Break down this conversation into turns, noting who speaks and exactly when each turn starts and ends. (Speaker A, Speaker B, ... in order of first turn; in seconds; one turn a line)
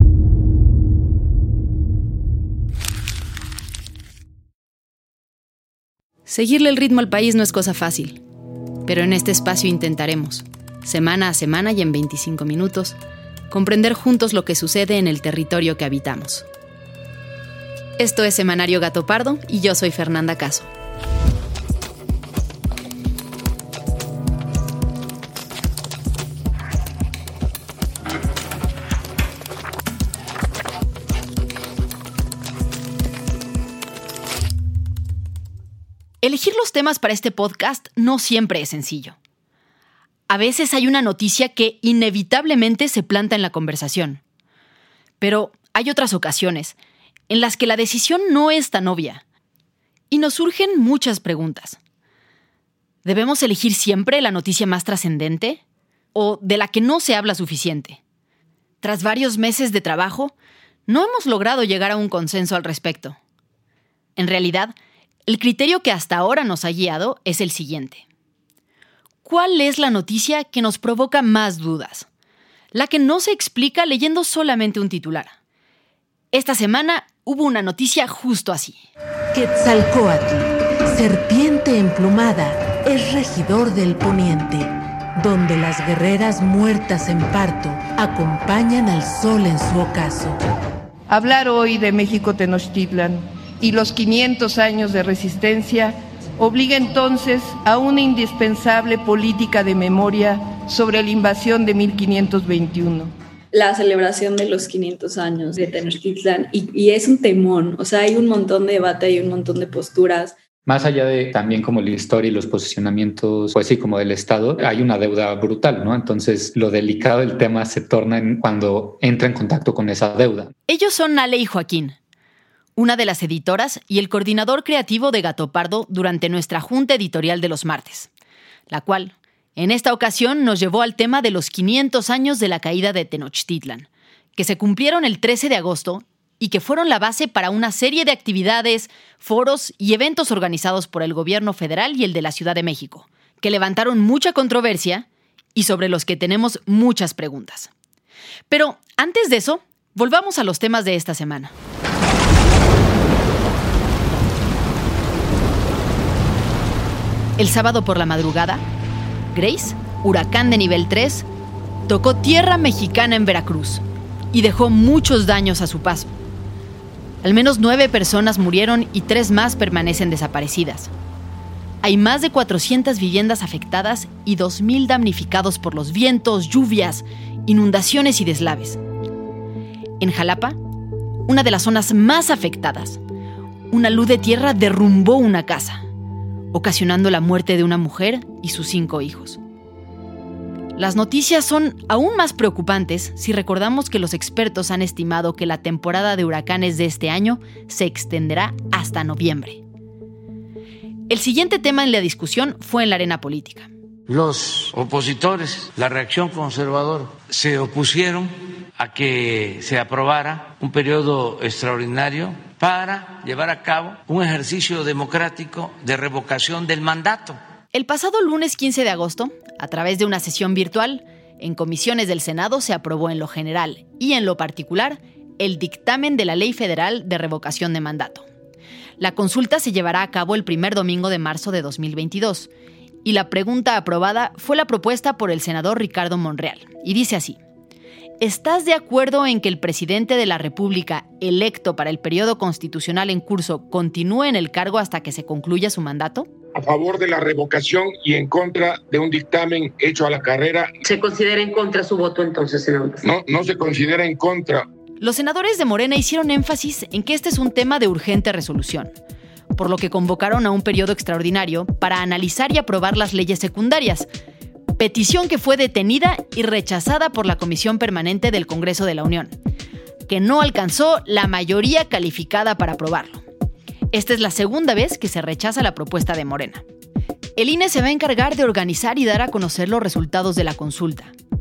Speaker A: 6.3-8.2
Speaker A: 8.9-13.0
Speaker A: 13.5-16.5
Speaker A: 18.0-20.7
Speaker A: 36.2-39.1
Speaker A: 40.3-44.2
Speaker A: 45.2-46.8
Speaker A: 47.3-49.2
Speaker A: 50.1-51.8
Speaker A: 53.0-55.6
Speaker A: 56.1-58.0
Speaker A: 58.8-60.3
Speaker A: 60.9-63.2
Speaker A: 64.2-64.7
Speaker A: 65.3-68.0
Speaker A: 69.2-72.1
Speaker A: 72.7-75.4
Speaker A: 76.3-78.8
Speaker B: 79.3-90.4
Speaker C: 91.1-103.1
Speaker D: 103.5-110.4
Speaker E: 110.7-120.5
Speaker A: 120.7-122.0
Speaker A: 122.8-128.1
Speaker A: 128.7-147.7
Speaker A: 148.5-151.5
Speaker A: 157.4-158.6
Speaker A: 159.3-161.3
Speaker A: 161.9-166.1
Speaker A: 167.2-170.9
Speaker A: 171.8-178.8
Speaker A: 180.0-180.6
Speaker A: 181.3-183.0
Speaker A: 183.7-185.8
Speaker A: 186.5-189.4
Speaker A: 190.8-199.6
Speaker A: 201.1-203.7
Speaker F: 204.1-217.4
Speaker A: 217.7-228.2
Speaker A: 229.0-232.5
Speaker A: 233.1-237.4
Speaker A: 238.2-246.3
Speaker G: 246.6-250.7
Speaker H: 250.8-253.8
Speaker G: 253.1-254.7
Speaker A: 255.0-258.9
Speaker A: 259.6-264.1
Speaker A: 264.8-269.4
Speaker A: 270.1-273.2
Speaker A: 273.9-276.6
Speaker A: 277.4-281.1